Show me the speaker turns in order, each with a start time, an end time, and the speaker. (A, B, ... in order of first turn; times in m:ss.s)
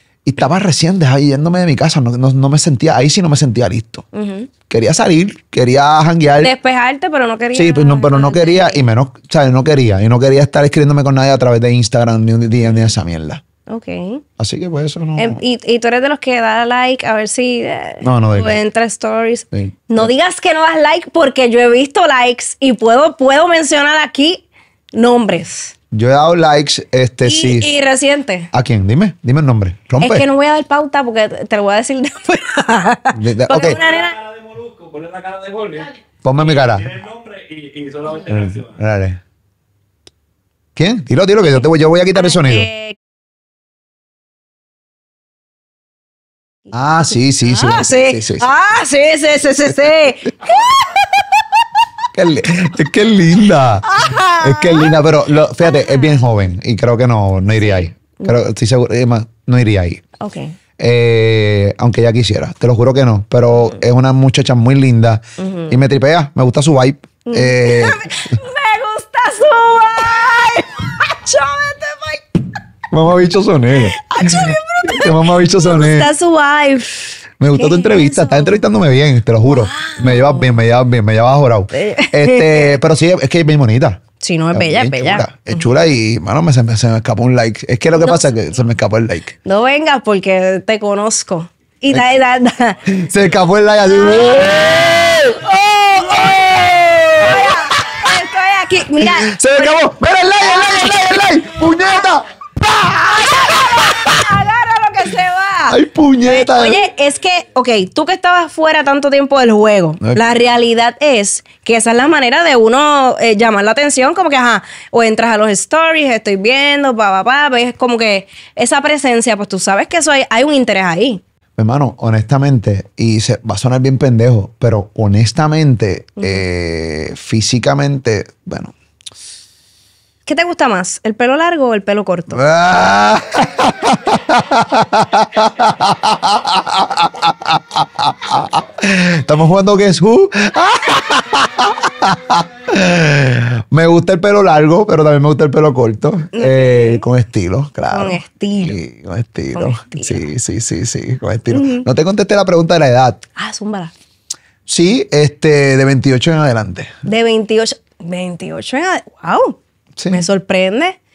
0:00.2-0:04.0 A
0:04.1-0:04.5 B
0:04.7-0:06.5 A
0:06.4-0:08.8 B
0:07.5-0:13.4 A
0:13.7-0:14.2 B
0:14.4-0:15.4 A
0:15.2-0:25.7 B
0:18.0-0:18.6 A
0:19.5-0:20.1 A
0:25.9-0:27.7 A
0:27.2-0:28.5 B
0:28.5-0:30.3 A
0:30.0-0:34.2 B
0:33.1-0:33.8 A
0:34.2-0:35.9 C
0:36.2-0:37.0 A
0:36.9-0:38.7 C
0:38.2-0:39.2 A
0:40.8-0:42.7 A
0:42.1-0:43.0 B
0:46.7-0:48.4 A
0:47.4-0:51.4 B
0:52.1-1:00.0 A
0:53.8-0:55.0 B
0:55.6-0:56.3 B
0:57.6-0:58.4 B
1:00.2-1:00.6 B
1:00.8-1:08.3 A
1:05.4-1:05.8 B
1:07.2-1:12.4 B
1:12.9-1:16.1 A
1:13.8-1:17.0 B
1:17.4-1:24.0 A
1:17.5-1:18.6 B
1:19.4-1:20.6 B
1:21.7-1:22.8 B
1:24.2-1:25.6 B
1:24.5-1:29.4 A
1:28.0-1:28.3 B
1:29.4-1:32.8 B
1:32.8-1:38.1 A
1:37.2-1:39.8 B
1:39.0-1:44.2 A
1:43.4-2:01.2 B
1:45.7-1:46.8 A
2:01.6-2:08.7 A
2:06.2-2:06.4 B
2:10.2-2:12.4 B
2:12.3-2:33.2 A
2:26.3-2:27.0 B
2:27.9-2:28.8 B
2:29.5-2:30.2 B
2:31.5-2:31.8 B
2:33.4-2:33.9 B
2:34.6-2:36.9 A
2:37.0-2:39.6 B
2:40.0-2:40.2 A
2:40.1-2:41.0 B